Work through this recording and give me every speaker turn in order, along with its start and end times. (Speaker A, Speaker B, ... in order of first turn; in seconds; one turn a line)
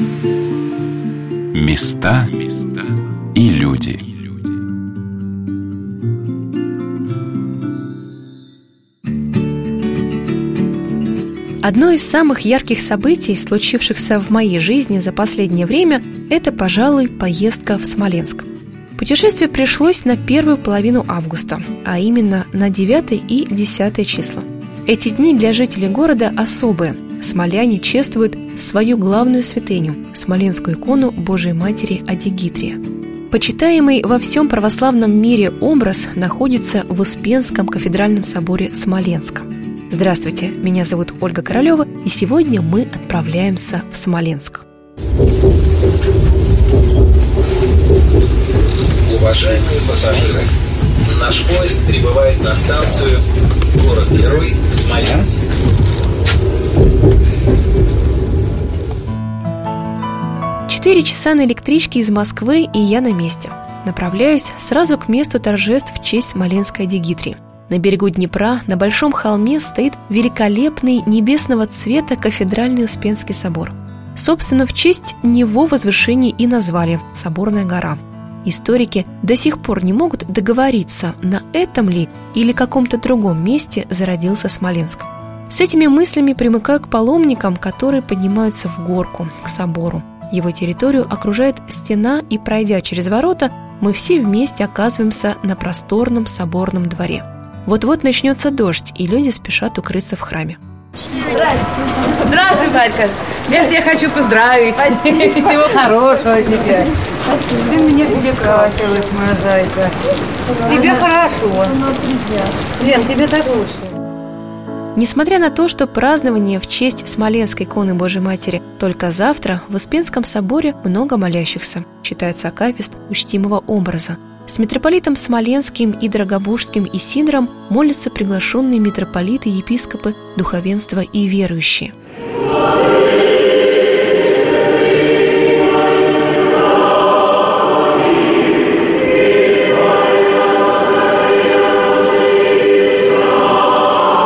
Speaker A: 1.5-4.5
Speaker B: 11.6-32.8
Speaker B: 33.3-44.6
Speaker C: 49.0-50.5
Speaker C: 51.0-53.1
Speaker C: 53.7-55.3
Speaker B: 60.7-100.6
Speaker D: 102.2-106.9
Speaker D: 107.6-109.9
Speaker D: 110.6-111.7
Speaker D: 112.8-113.9
Speaker B: 114.9-131.9